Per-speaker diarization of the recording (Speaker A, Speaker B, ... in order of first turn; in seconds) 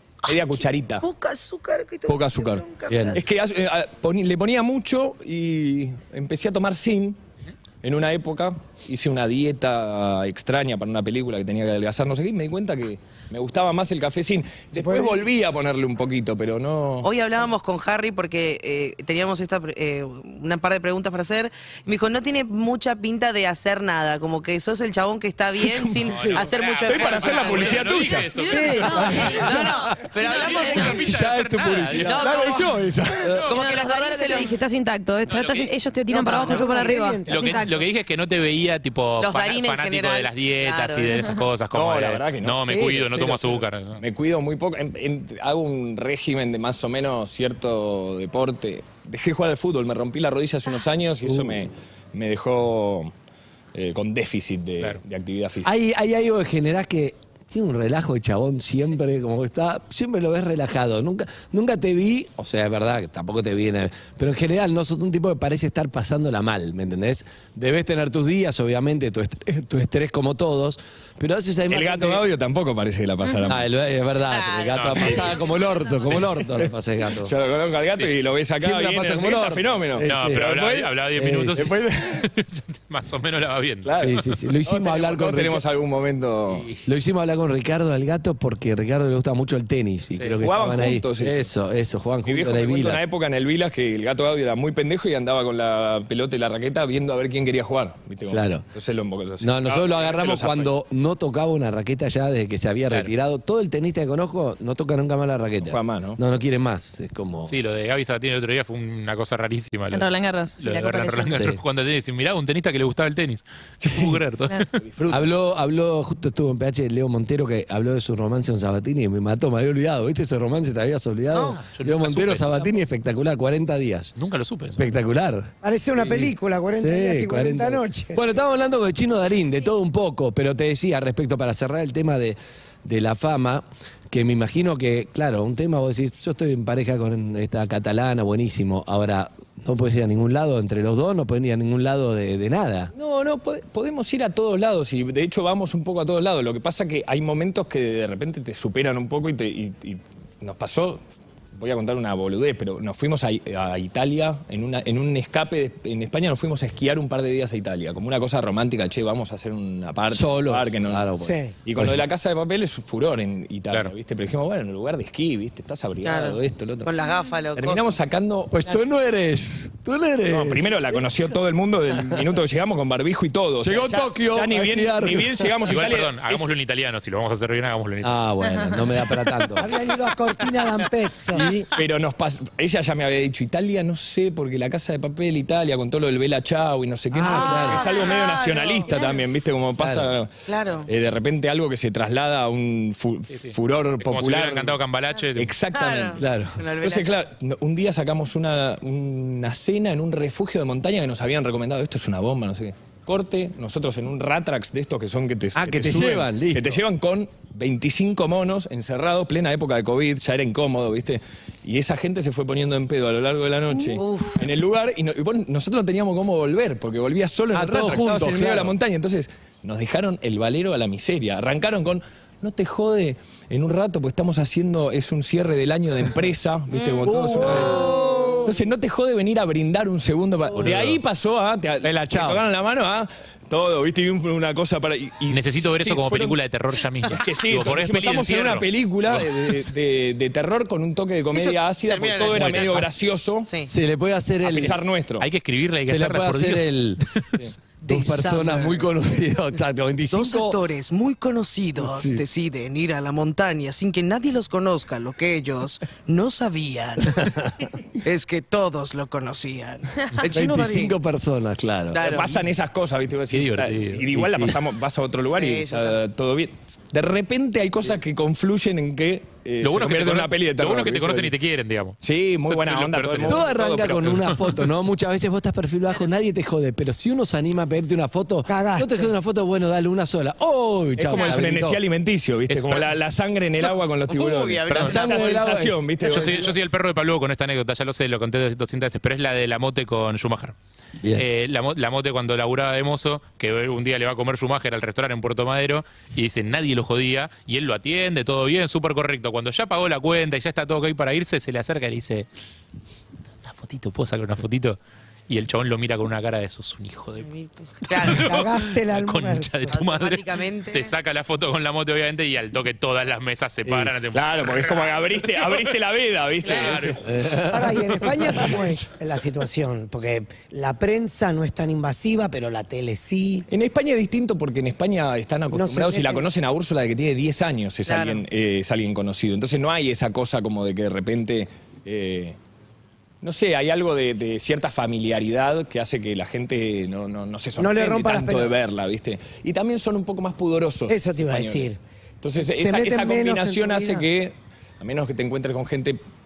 Speaker A: 0.2-1.1, 2.1-7.2, 7.8-17.1, 25.6-28.4, 32.0-33.5, 41.7-53.1, 53.7-55.7, 71.7-73.7, 76.1-81.0, 81.5-82.3, 83.8-86.7, 90.4-91.5, 92.2-100.8, 105.7-106.2, 114.8-115.3, 142.9-151.0, 151.5-161.1, 161.7-166.9, 167.6-168.6, 170.3-176.5, 181.8-194.8, 195.3-196.2, 196.8-236.4, 237.1-243.5, 244.4-245.3, 262.0-271.4, 272.0-274.5, 281.0-286.6, 314.1-317.0, 318.3-318.6, 323.5-332.4, 333.2-341.7, 342.2-346.0
Speaker B: 1.0-3.2, 17.0-28.1, 29.2-31.1, 32.0-32.7, 33.5-34.5, 39.2-41.2, 74.3-75.4, 166.0-167.9, 187.3-189.2, 190.5-190.9, 195.7-197.1, 213.9-214.4, 226.7-228.4, 241.3-242.9, 243.4-243.7, 247.8-248.9, 250.1-257.3, 258.0-261.0, 261.9-262.4, 265.3-266.0, 284.1-285.4, 307.3-308.5, 309.7-310.9, 327.9-328.2
Speaker C: 2.9-3.2, 29.0-30.1, 30.9-32.2, 51.3-51.6, 55.6-72.2, 73.5-77.3, 78.6-80.5, 81.2-81.7, 84.0-85.6, 86.8-93.0, 98.3-98.6, 99.4-107.5, 111.3-111.6, 115.1-124.2, 124.8-142.9, 160.1-162.0, 168.5-170.9, 173.6-175.6, 178.0-179.7, 181.3-181.7, 187.1-187.9, 189.8-190.1, 196.2-196.6, 205.6-206.8, 217.5-218.8, 227.1-228.4, 230.7-230.9, 231.8-232.4, 242.3-242.9, 243.7-244.8, 245.9-247.0, 247.9-250.6, 251.8-252.2, 257.1-257.6, 260.2-262.0, 264.1-264.6, 273.3-281.8, 284.8-286.2, 313.7-314.0, 317.1-318.5
Speaker D: 14.7-15.2, 36.1-37.7, 125.6-128.2, 161.2-161.6, 179.6-181.5, 278.5-279.1, 308.1-309.8, 317.5-323.5, 325.5-326.3, 337.6-338.5, 340.9-341.8, 342.4-344.1
Speaker E: 26.0-29.5, 30.2-32.4, 33.3-33.6, 35.3-35.7, 36.3-36.7, 37.3-44.0, 74.7-75.3, 80.0-84.1, 86.5-86.8, 90.2-90.5, 107.5-114.7, 121.4-122.8, 124.2-124.8, 175.7-178.2, 193.3-195.6, 235.3-239.5, 245.2-247.4, 263.3-264.2, 269.6-274.6, 282.5-282.9, 284.7-285.0, 286.0-290.6, 291.1-302.3, 303.4-307.3, 307.8-315.7, 316.4-317.4
Speaker F: 28.1-31.0, 33.5-37.8, 109.9-111.4, 178.4-179.1